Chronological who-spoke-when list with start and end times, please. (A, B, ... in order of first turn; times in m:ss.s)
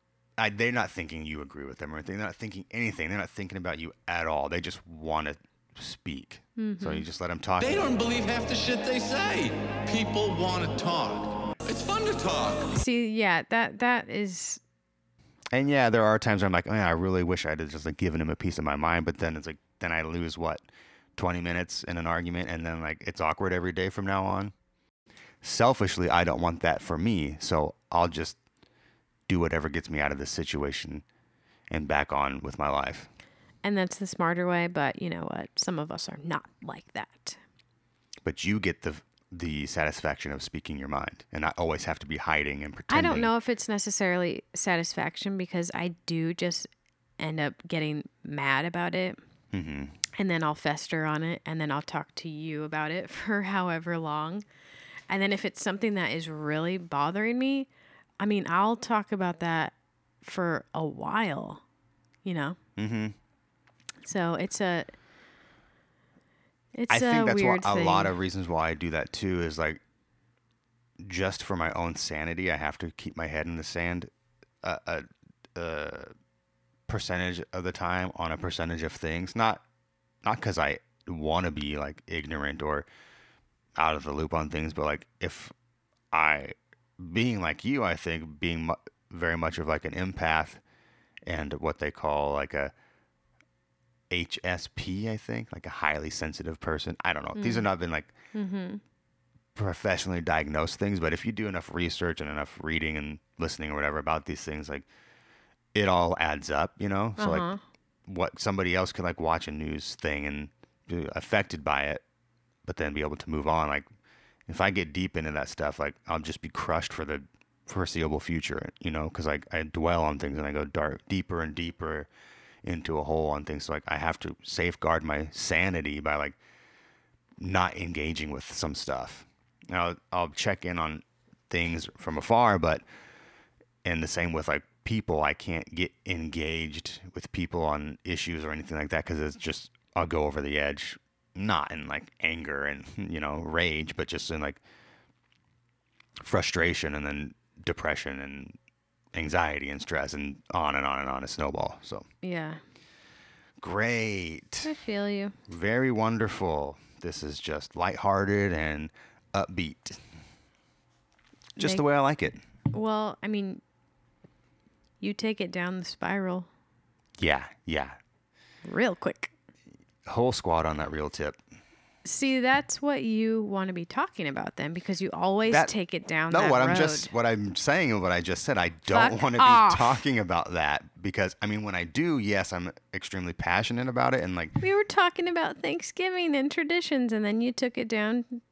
0:00.4-0:07.9 A
0:06.6-0:07.0 B
0:07.6-0:12.8 C
0:12.8-0:14.6 B
0:15.5-0:20.6 A
0:21.2-0:24.5 A
0:25.4-0:28.4 A
0:29.3-0:31.0 A
0:31.7-0:33.1 A
0:33.6-0:37.4 B
0:38.2-0:43.3 A
0:42.9-0:46.7 B
0:47.2-0:49.2 B
0:49.5-0:50.0 A
0:50.1-0:54.4 B
0:55.1-0:57.7 B
0:58.2-1:01.6 B
1:02.2-1:02.6 B
1:02.8-1:03.2 A
1:04.0-1:04.9 B
1:06.8-1:08.1 B
1:06.9-1:09.8 A
1:11.0-1:14.1 A
1:14.6-1:16.1 A
1:16.9-1:19.6 A
1:20.2-1:22.9 A
1:23.8-1:25.5 A
1:26.1-1:30.6 A
1:31.3-1:32.7 A
1:34.1-1:38.1 A
1:37.4-1:37.7 B
1:38.3-1:38.8 B
1:39.6-1:44.9 A
1:45.7-1:47.5 A
1:47.2-1:47.6 B
1:48.1-1:52.0 A
1:52.6-1:53.8 A
1:54.5-2:02.1 A
2:02.6-2:06.4 A
2:07.4-2:12.8 A
2:13.8-2:24.6 A
2:26.2-2:28.6 A
2:29.1-2:32.1 A
2:32.2-2:32.6 B
2:33.6-2:34.7 A
2:34.6-2:35.4 B
2:35.5-2:40.0 A
2:41.6-2:41.8 B
2:41.6-2:42.4 A
2:42.7-2:43.6 B
2:45.0-2:46.5 B
2:47.2-2:48.0 A
2:48.6-2:49.3 B
2:50.1-2:51.4 A
2:52.0-2:57.1 B
2:56.3-3:04.6 A
2:58.9-3:00.0 B
3:04.6-3:08.4 B